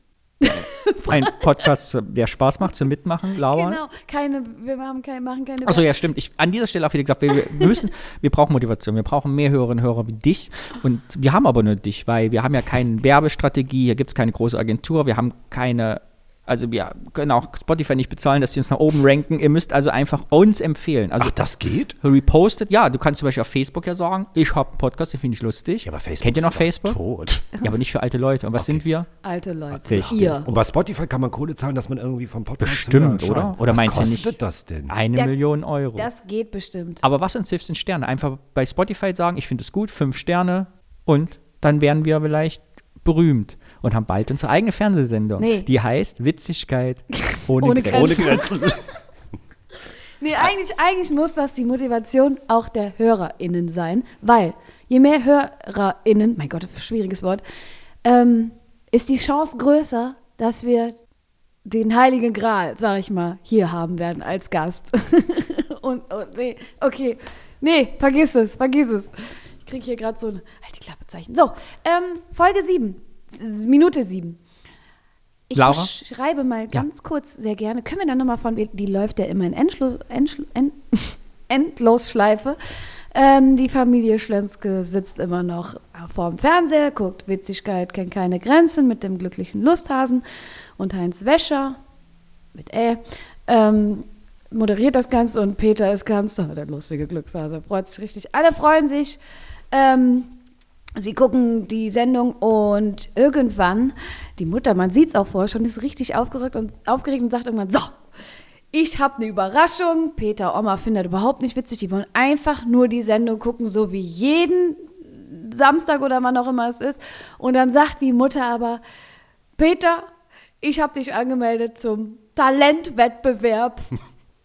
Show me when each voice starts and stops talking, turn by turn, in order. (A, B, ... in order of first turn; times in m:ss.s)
0:00.4-0:01.3 A
0:01.0-0:03.8 B
0:03.4-0:05.9 A
0:05.6-0:21.4 B
0:21.2-0:22.0 C
0:22.0-0:27.0 B
0:25.8-0:27.5 C
0:27.6-0:29.1 B
0:28.6-0:28.8 C
0:29.2-0:30.5 A
0:29.7-0:34.9 C
0:29.9-0:30.5 B
0:32.6-0:34.3 B
0:34.9-0:36.1 B
0:36.0-0:37.0 A
0:37.0-0:48.4 B
0:45.4-0:45.7 A
0:47.6-0:48.5 A
0:47.9-0:48.9 C
0:50.2-0:57.4 A
0:58.0-1:01.0 A
1:01.6-1:14.4 A
1:15.5-1:22.6 A
1:15.5-1:15.9 B
1:23.1-1:30.2 A
1:30.8-1:31.8 A
1:32.5-1:39.2 A
1:39.7-1:40.3 A
1:41.0-1:48.0 A
1:48.7-1:58.8 A
1:59.6-2:00.1 A
2:00.6-2:03.9 A